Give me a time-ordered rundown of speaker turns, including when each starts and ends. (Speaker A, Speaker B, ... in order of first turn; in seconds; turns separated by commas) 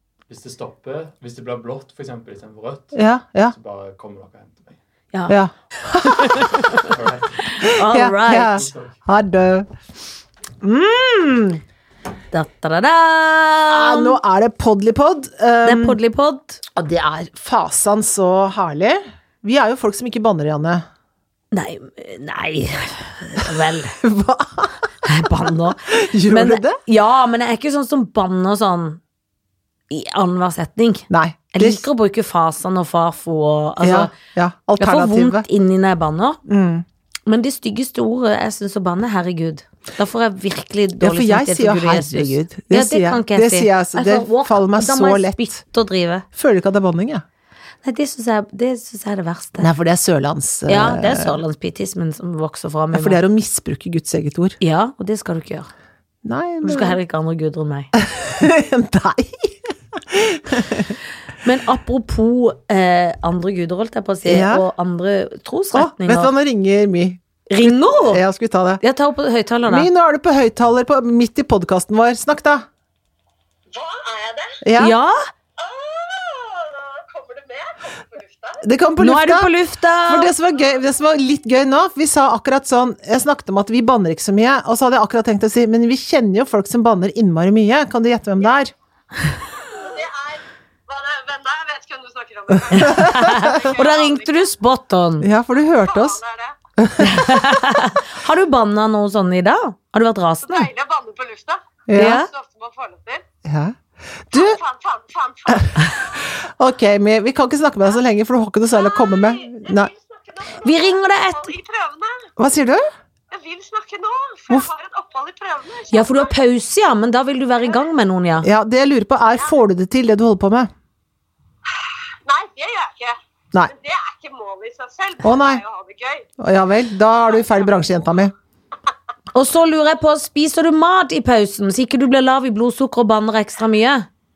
Speaker A: 0.3-4.8, Speaker B: 2.9-3.5, Speaker B: 5.3-6.6, Speaker C: 6.0-6.9, Speaker A: 6.7-9.0, Speaker C: 7.6-8.6, Speaker B: 7.7-9.7, Speaker B: 10.6-11.6, Speaker C: 12.3-14.2, Speaker B: 13.7-16.0, Speaker C: 15.6-16.6, Speaker B: 16.7-20.9, Speaker C: 21.5-24.0, Speaker B: 23.4-26.8, Speaker C: 25.0-29.0, Speaker C: 29.9-34.1, Speaker B: 31.1-31.8, Speaker B: 33.8-35.5, Speaker C: 34.8-36.4, Speaker B: 36.5-36.9, Speaker C: 37.3-46.2, Speaker B: 41.0-45.6, Speaker B: 46.3-47.2, Speaker C: 47.8-49.7, Speaker B: 49.6-51.4, Speaker C: 50.7-53.2, Speaker B: 52.9-54.6, Speaker C: 54.6-55.7, Speaker B: 56.2-57.0, Speaker C: 56.6-57.9, Speaker B: 58.0-61.0, Speaker C: 61.4-66.3, Speaker B: 64.2-64.7, Speaker B: 65.7-68.8, Speaker C: 67.5-68.2, Speaker C: 68.8-69.9, Speaker B: 69.7-72.7, Speaker D: 73.7-74.6, Speaker B: 74.6-75.0, Speaker C: 74.8-75.3, Speaker D: 75.6-78.6, Speaker B: 78.6-79.5, Speaker C: 79.0-80.3, Speaker B: 80.1-88.7, Speaker D: 89.6-94.5, Speaker B: 92.7-93.6, Speaker C: 92.7-95.3, Speaker B: 95.2-96.2, Speaker D: 95.8-96.5, Speaker B: 96.8-97.7, Speaker C: 97.0-100.7, Speaker D: 100.4-103.2, Speaker B: 101.9-102.3, Speaker C: 102.0-102.3, Speaker B: 103.5-104.6, Speaker D: 104.3-106.1, Speaker B: 105.5-109.9, Speaker D: 108.7-112.3, Speaker C: 110.5-111.5, Speaker B: 112.4-112.8, Speaker D: 113.3-116.3, Speaker C: 115.9-118.5, Speaker B: 118.4-120.7, Speaker D: 122.3-126.3, Speaker B: 125.2-125.6, Speaker B: 126.4-128.3, Speaker D: 127.3-127.7, Speaker C: 129.3-134.1